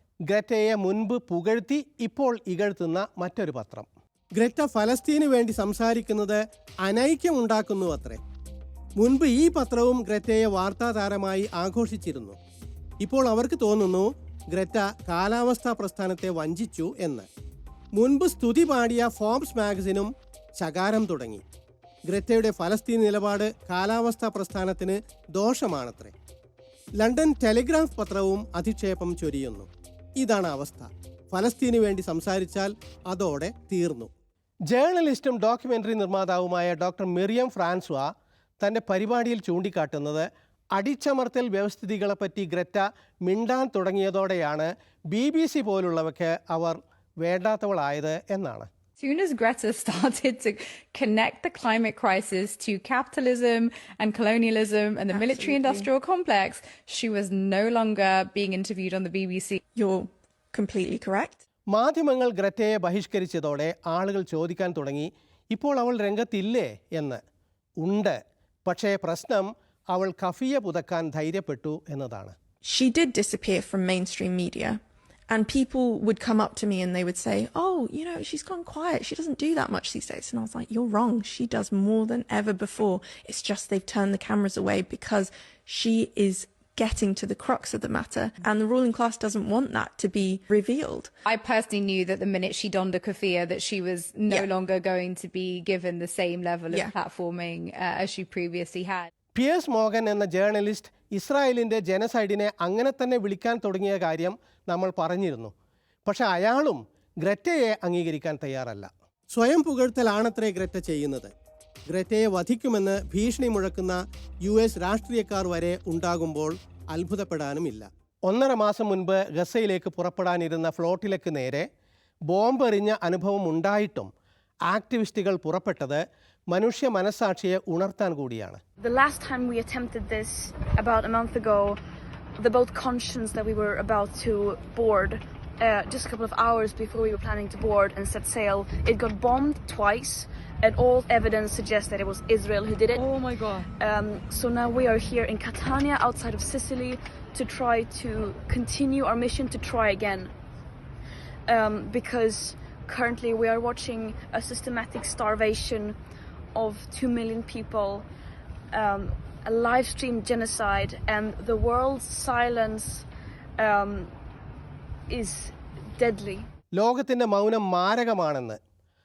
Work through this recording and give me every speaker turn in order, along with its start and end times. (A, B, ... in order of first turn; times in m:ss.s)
0:00.3-0:08.2 A
0:09.0-0:12.4 A
0:13.0-0:17.3 A
0:18.0-0:21.4 A
0:22.1-0:26.1 A
0:27.0-0:34.1 A
0:34.7-0:38.1 A
0:38.6-0:48.7 A
0:49.0-0:59.6 B
0:55.1-0:55.9 C
0:59.8-1:01.4 C
1:01.7-1:07.2 A
1:07.8-1:12.4 A
1:12.6-1:31.1 C
1:31.3-1:39.1 B
1:39.4-1:45.5 A
1:46.0-1:51.3 A
1:51.9-2:01.7 A
2:02.3-2:04.1 A
2:04.7-2:08.6 A
2:08.8-2:11.8 D
2:12.4-2:30.3 D
2:31.5-2:36.0 D
2:36.5-2:38.1 D
2:38.7-2:43.0 D
2:43.6-2:44.1 D
2:45.1-2:46.5 D
2:46.8-2:48.6 A